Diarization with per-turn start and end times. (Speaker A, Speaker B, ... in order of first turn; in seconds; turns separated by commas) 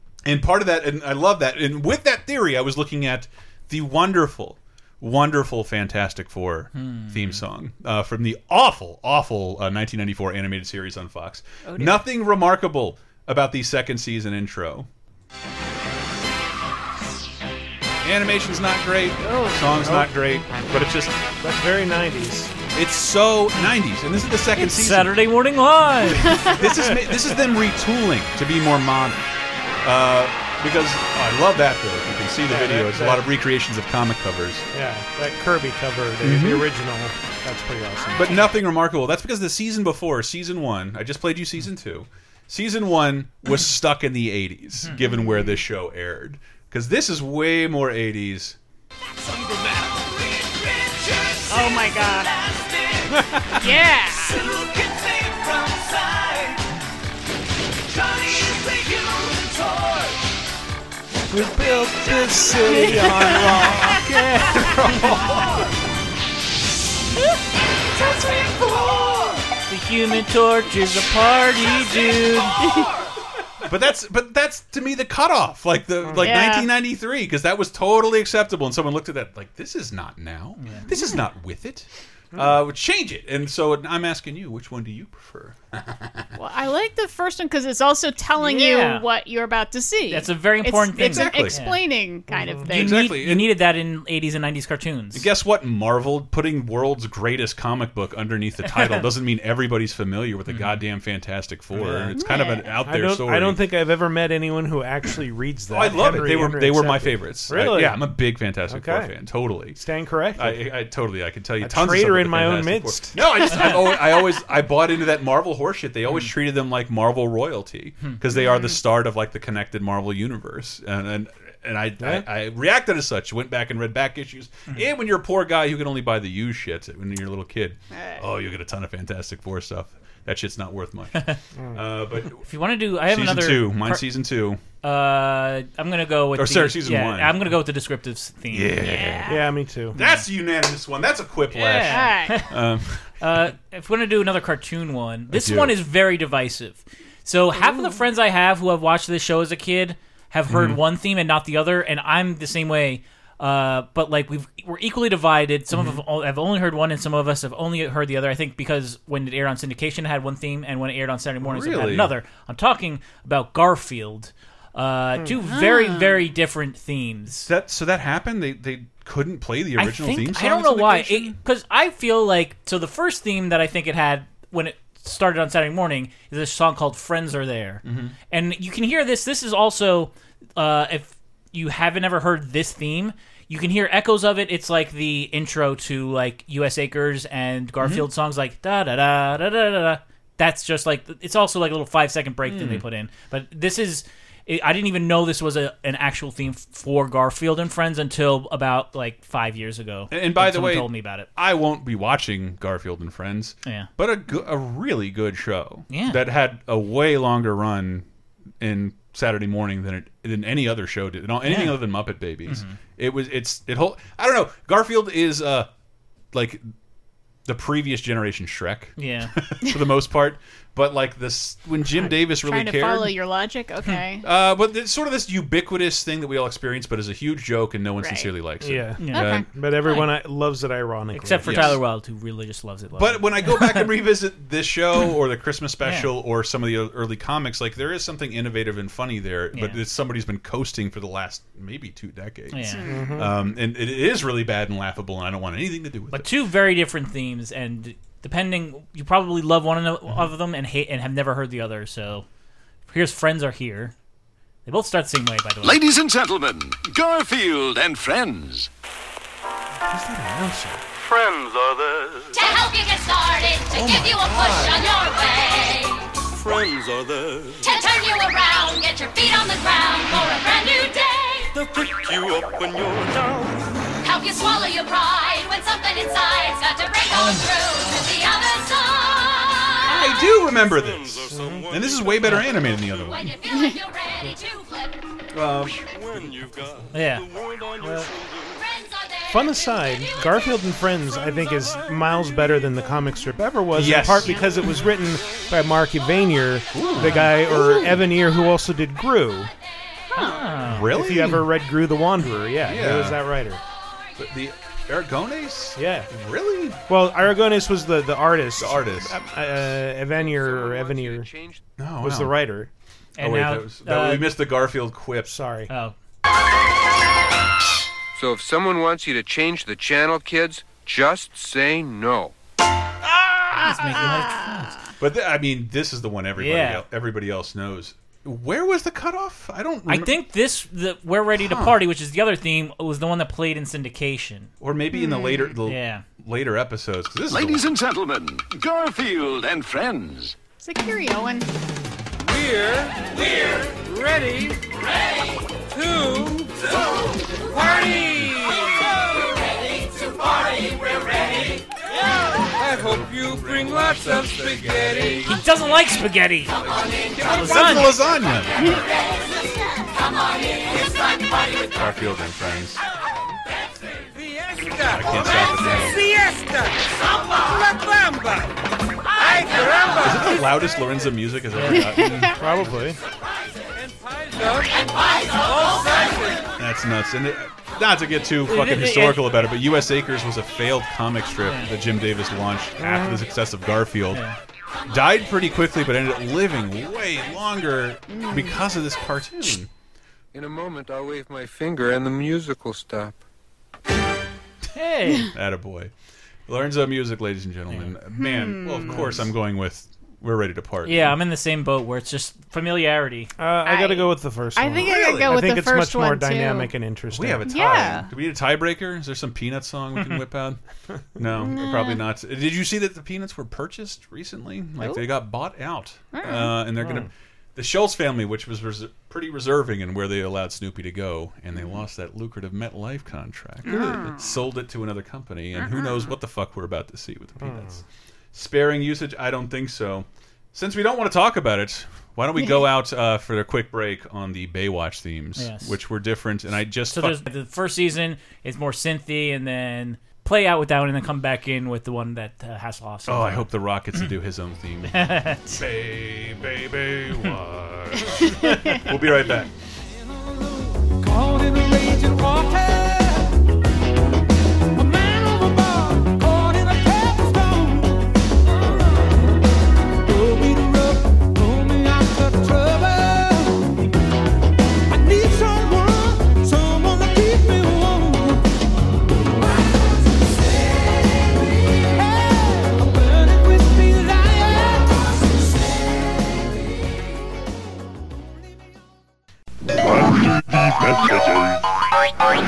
Speaker A: 0.2-14.9, Speaker B: 6.8-7.4, Speaker C: 11.7-12.1, Speaker A: 18.0-21.1, Speaker C: 19.2-19.7, Speaker D: 19.8-20.4, Speaker D: 21.4-22.5, Speaker A: 22.7-25.1, Speaker B: 24.6-26.5, Speaker C: 26.3-26.6, Speaker A: 26.3-29.3, Speaker A: 29.8-34.7, Speaker D: 32.5-33.2, Speaker D: 34.7-38.4, Speaker A: 36.2-36.7, Speaker A: 38.1-48.6, Speaker C: 45.0-45.6, Speaker E: 49.2-53.5, Speaker C: 51.5-52.3, Speaker C: 53.6-54.5, Speaker E: 54.2-56.6, Speaker E: 57.9-60.2, Speaker D: 61.3-64.7, Speaker C: 62.7-63.9, Speaker B: 63.9-64.7, Speaker A: 64.5-65.6, Speaker E: 68.0-69.4, Speaker B: 69.7-72.7, Speaker E: 71.7-72.9, Speaker C: 72.6-72.9, Speaker A: 73.6-86.3, Speaker C: 76.1-76.7, Speaker B: 80.6-80.9, Speaker C: 80.9-81.2, Speaker C: 86.4-93.0, Speaker B: 88.4-89.0, Speaker B: 90.1-91.8, Speaker A: 91.0-91.6, Speaker D: 92.3-92.7, Speaker A: 92.7-93.5, Speaker B: 92.7-95.3, Speaker A: 95.1-103.6, Speaker B: 100.5-100.8, Speaker D: 101.7-102.2, Speaker C: 102.2-102.8, Speaker D: 102.8-108.1, Speaker A: 105.7-132.5, Speaker D: 108.7-109.2, Speaker D: 109.8-110.7, Speaker D: 111.6-113.2, Speaker C: 113.5-114.2, Speaker C: 118.3-118.8, Speaker D: 122.0-122.3, Speaker C: 127.9-128.2, Speaker D: 131.6-131.9, Speaker B: 132.4-134.0, Speaker A: 133.1-134.6, Speaker B: 134.8-139.3, Speaker A: 136.4-137.5, Speaker A: 138.5-139.4, Speaker C: 138.8-139.4, Speaker D: 139.3-140.0, Speaker A: 139.9-143.2, Speaker B: 139.9-140.2, Speaker B: 141.5-142.5, Speaker C: 141.9-142.4, Speaker B: 143.2-167.5, Speaker A: 145.3-145.7, Speaker C: 147.5-148.0, Speaker A: 150.5-150.8, Speaker A: 155.7-156.0, Speaker A: 161.4-162.1, Speaker C: 165.4-166.2, Speaker A: 167.4-171.4, Speaker B: 169.8-201.3, Speaker A: 177.8-178.2, Speaker A: 187.8-188.1, Speaker A: 192.5-192.8, Speaker A: 200.1-208.1, Speaker B: 205.9-206.2, Speaker A: 208.6-215.7, Speaker B: 211.4-211.8, Speaker B: 212.5-212.8, Speaker A: 216.3-216.7, Speaker A: 217.5-223.1, Speaker B: 219.0-219.3, Speaker C: 221.9-224.3, Speaker A: 224.2-229.5, Speaker C: 228.0-228.3, Speaker D: 228.6-231.8, Speaker B: 229.0-230.1, Speaker C: 229.1-229.9, Speaker B: 231.1-233.9, Speaker A: 231.4-231.8, Speaker A: 233.0-246.3, Speaker B: 235.8-236.1, Speaker B: 239.5-239.8, Speaker B: 242.5-243.0, Speaker C: 242.7-243.3, Speaker D: 242.8-243.3, Speaker B: 246.1-252.3, Speaker B: 252.9-253.9, Speaker B: 254.7-255.8, Speaker F: 255.6-258.7, Speaker D: 259.9-260.8, Speaker G: 261.0-262.7, Speaker H: 262.3-266.1, Speaker A: 263.7-264.9, Speaker G: 266.3-267.8, Speaker H: 267.6-271.5, Speaker G: 271.6-273.6, Speaker H: 274.0-280.0, Speaker A: 277.1-277.5, Speaker A: 279.8-283.3, Speaker G: 280.6-282.9, Speaker D: 281.3-281.7, Speaker H: 283.1-285.0, Speaker C: 283.5-283.8, Speaker A: 285.3-285.8, Speaker G: 285.8-288.6, Speaker B: 286.9-287.3, Speaker D: 287.8-288.1, Speaker H: 288.5-289.9, Speaker D: 289.3-299.5, Speaker A: 293.8-294.5, Speaker A: 296.7-298.0, Speaker B: 300.1-300.9, Speaker C: 300.2-300.5, Speaker A: 300.7-301.5, Speaker D: 300.9-303.6, Speaker A: 302.6-303.3, Speaker A: 304.2-306.8, Speaker D: 305.8-306.1, Speaker D: 306.9-311.3, Speaker A: 308.6-309.2, Speaker I: 310.0-311.6, Speaker A: 311.8-312.4, Speaker D: 312.0-312.7, Speaker B: 313.2-314.4, Speaker A: 313.2-315.4, Speaker D: 315.3-315.7, Speaker B: 315.7-315.9, Speaker I: 318.1-322.3, Speaker A: 323.1-324.1, Speaker B: 323.5-324.7, Speaker C: 323.6-324.9, Speaker A: 325.0-330.2, Speaker B: 326.4-326.8, Speaker B: 329.9-334.5, Speaker A: 331.4-331.8, Speaker A: 334.6-337.7, Speaker C: 334.9-335.6, Speaker B: 335.7-336.0, Speaker F: 337.3-340.4, Speaker C: 340.6-341.5, Speaker E: 342.4-342.9, Speaker E: 343.8-344.6, Speaker E: 345.8-346.5, Speaker E: 347.6-348.7, Speaker A: 348.0-348.5, Speaker A: 352.4-355.4, Speaker G: 352.7-355.2, Speaker B: 355.2-356.6, Speaker A: 357.0-358.8, Speaker B: 357.2-358.0, Speaker C: 358.6-358.9, Speaker A: 361.7-362.8, Speaker A: 364.7-366.0, Speaker E: 366.0-366.7, Speaker E: 367.6-368.3, Speaker A: 370.0-372.8, Speaker B: 371.6-371.9, Speaker C: 371.7-372.4, Speaker D: 372.4-373.0, Speaker A: 376.6-384.2, Speaker B: 378.5-379.3, Speaker B: 381.4-381.7, Speaker D: 382.8-383.2, Speaker A: 384.9-389.7, Speaker C: 388.1-388.6, Speaker I: 390.3-393.2, Speaker B: 394.8-395.3, Speaker A: 395.3-395.9, Speaker A: 396.5-401.1, Speaker C: 398.2-399.2, Speaker D: 398.9-399.3, Speaker B: 400.9-403.3, Speaker D: 403.4-408.1, Speaker C: 403.6-406.7, Speaker A: 404.8-405.4, Speaker A: 407.1-410.6, Speaker C: 407.5-408.1, Speaker A: 411.1-427.8, Speaker C: 411.4-412.0, Speaker C: 414.8-415.1, Speaker C: 416.1-416.5, Speaker D: 416.8-417.1, Speaker C: 423.6-424.2, Speaker D: 423.7-424.1, Speaker C: 425.6-426.1, Speaker D: 427.4-427.8, Speaker A: 428.3-437.2, Speaker B: 435.4-435.8, Speaker B: 436.9-444.1, Speaker A: 443.1-444.9, Speaker B: 444.9-445.6, Speaker A: 445.5-449.5, Speaker C: 448.0-448.9, Speaker E: 451.0-453.3, Speaker E: 454.8-458.0, Speaker E: 460.1-463.6, Speaker E: 464.9-468.4, Speaker E: 472.2-474.9